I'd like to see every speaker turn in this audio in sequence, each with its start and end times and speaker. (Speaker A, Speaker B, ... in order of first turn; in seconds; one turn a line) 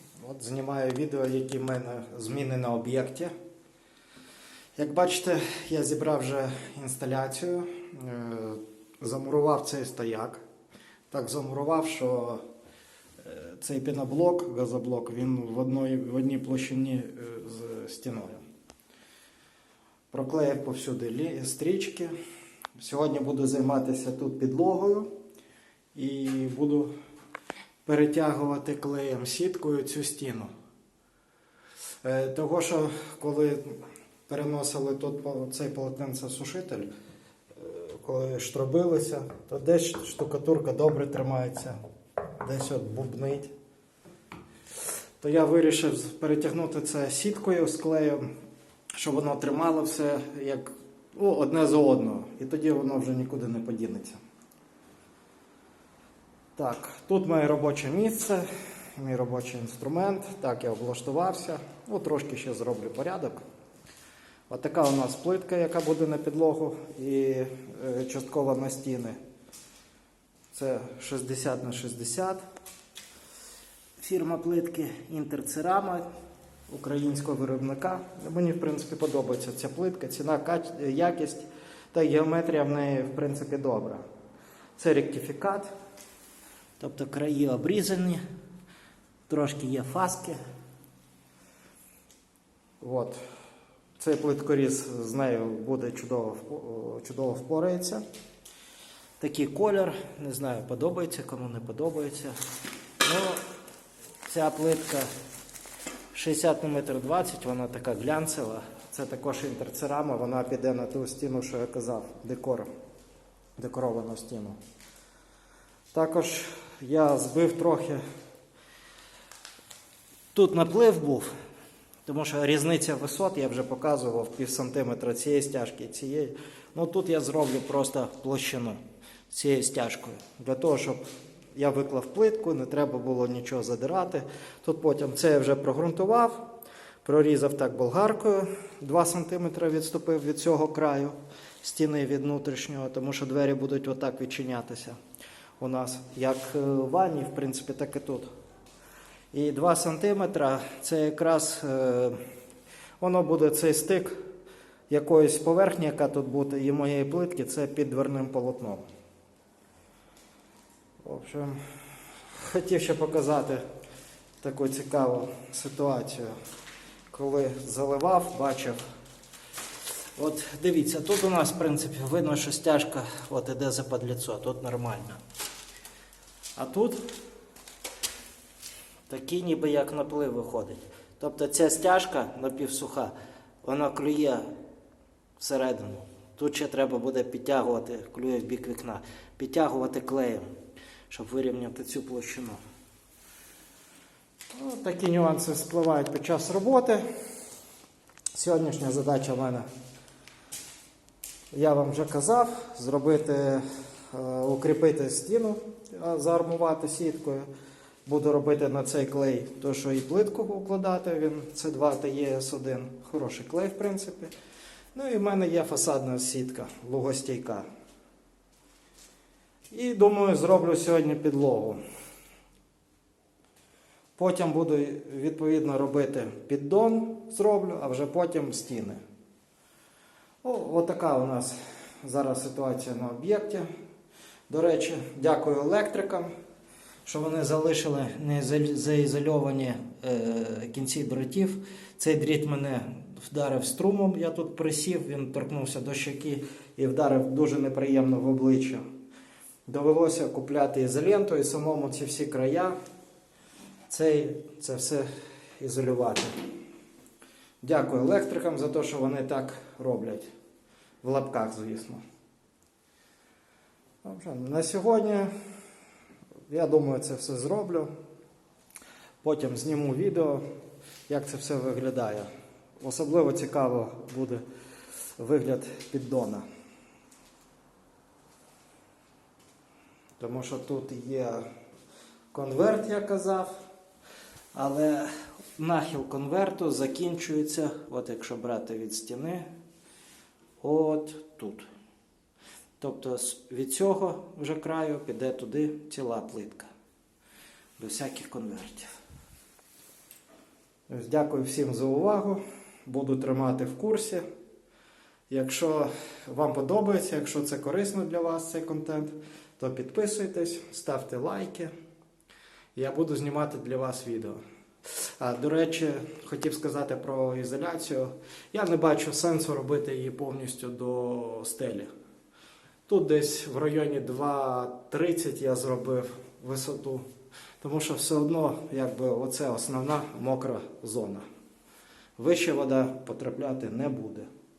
Speaker A: 0.2-3.3
Speaker A: 4.8-10.4
Speaker A: 11.1-12.4
Speaker A: 13.2-18.4
Speaker A: 20.1-22.1
Speaker A: 22.8-25.1
Speaker A: 25.9-26.9
Speaker A: 27.9-30.5
Speaker A: 32.0-33.8
Speaker A: 34.3-36.9
Speaker A: 37.6-41.8
Speaker A: 42.4-43.5
Speaker A: 45.2-48.2
Speaker A: 49.0-54.2
Speaker A: 56.6-63.4
Speaker A: 64.5-69.2
Speaker A: 70.5-72.4
Speaker A: 74.0-76.0
Speaker A: 76.7-84.0
Speaker A: 84.8-85.7
Speaker A: 86.8-88.2
Speaker A: 89.3-90.4
Speaker A: 92.8-93.2
Speaker A: 94.0-98.0
Speaker A: 99.2-102.3
Speaker A: 103.0-103.4
Speaker A: 104.3-105.1
Speaker A: 106.1-112.7
Speaker A: 113.6-114.6
Speaker A: 115.9-118.0
Speaker A: 120.3-121.3
Speaker A: 122.1-131.0
Speaker A: 131.6-136.4
Speaker A: 137.1-145.0
Speaker A: 145.6-148.3
Speaker A: 149.3-152.2
Speaker A: 153.0-154.1
Speaker A: 154.9-158.8
Speaker A: 161.0-161.6
Speaker A: 162.3-163.6
Speaker A: 164.4-166.3
Speaker A: 167.1-168.8
Speaker A: 170.2-175.2
Speaker A: 176.6-177.0
Speaker A: 179.1-183.1
Speaker A: 183.6-184.5
Speaker A: 185.4-190.5
Speaker A: 191.1-192.6
Speaker A: 194.5-197.0
Speaker A: 198.3-199.7
Speaker A: 201.5-207.5
Speaker A: 208.1-214.3
Speaker A: 214.9-217.7
Speaker A: 219.7-221.8
Speaker A: 224.2-229.0
Speaker A: 230.4-233.7
Speaker A: 234.5-236.3
Speaker A: 237.1-248.8
Speaker A: 249.7-252.8
Speaker A: 253.9-255.1
Speaker A: 255.6-256.3
Speaker A: 257.6-260.3
Speaker A: 261.0-262.0
Speaker A: 264.0-265.3
Speaker A: 266.5-267.9
Speaker A: 269.2-270.4
Speaker A: 271.1-272.3
Speaker A: 272.8-274.4
Speaker A: 275.2-276.4
Speaker A: 280.2-281.4
Speaker A: 282.3-283.5
Speaker A: 284.5-289.5
Speaker A: 290.6-291.7
Speaker A: 292.8-296.7
Speaker A: 297.8-298.9
Speaker A: 300.9-304.2
Speaker A: 305.3-311.7
Speaker A: 312.8-314.4
Speaker A: 315.2-321.9
Speaker A: 322.9-327.1
Speaker A: 327.6-331.2
Speaker A: 332.2-334.3